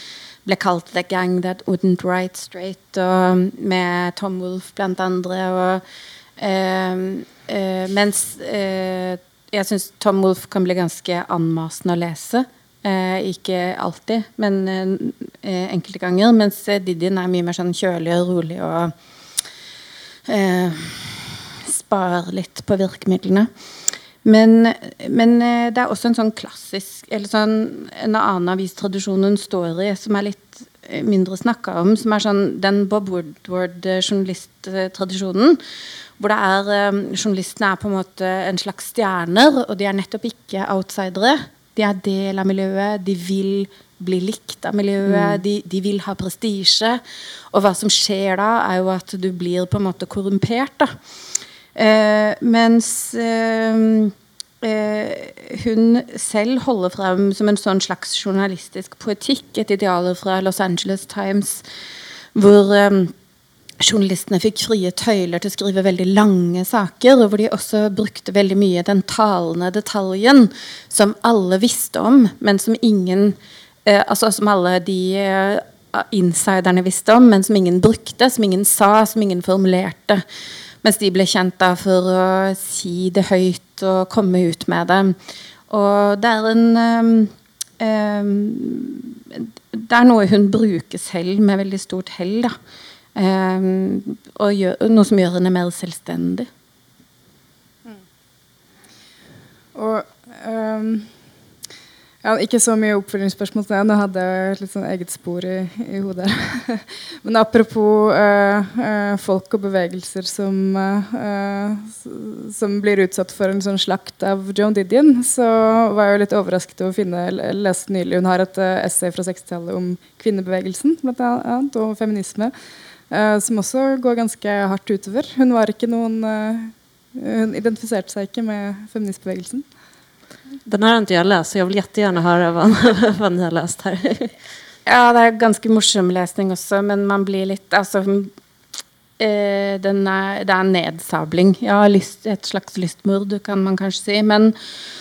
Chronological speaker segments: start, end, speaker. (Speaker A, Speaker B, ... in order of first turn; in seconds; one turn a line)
Speaker A: 0.5-5.8
Speaker A: 6.4-18.9
Speaker A: 20.3-23.5
Speaker A: 24.2-35.6
Speaker A: 36.2-47.0
Speaker B: 45.0-45.4
Speaker A: 47.5-50.9
Speaker A: 51.8-61.6
Speaker A: 62.3-63.1
Speaker A: 63.8-80.2
Speaker A: 80.8-85.2
Speaker A: 85.7-92.6
Speaker A: 93.2-96.5
Speaker C: 99.7-101.1
Speaker C: 102.2-122.5
Speaker C: 123.1-129.7
Speaker B: 130.7-134.4
Speaker A: 134.9-138.3
Speaker A: 139.2-144.6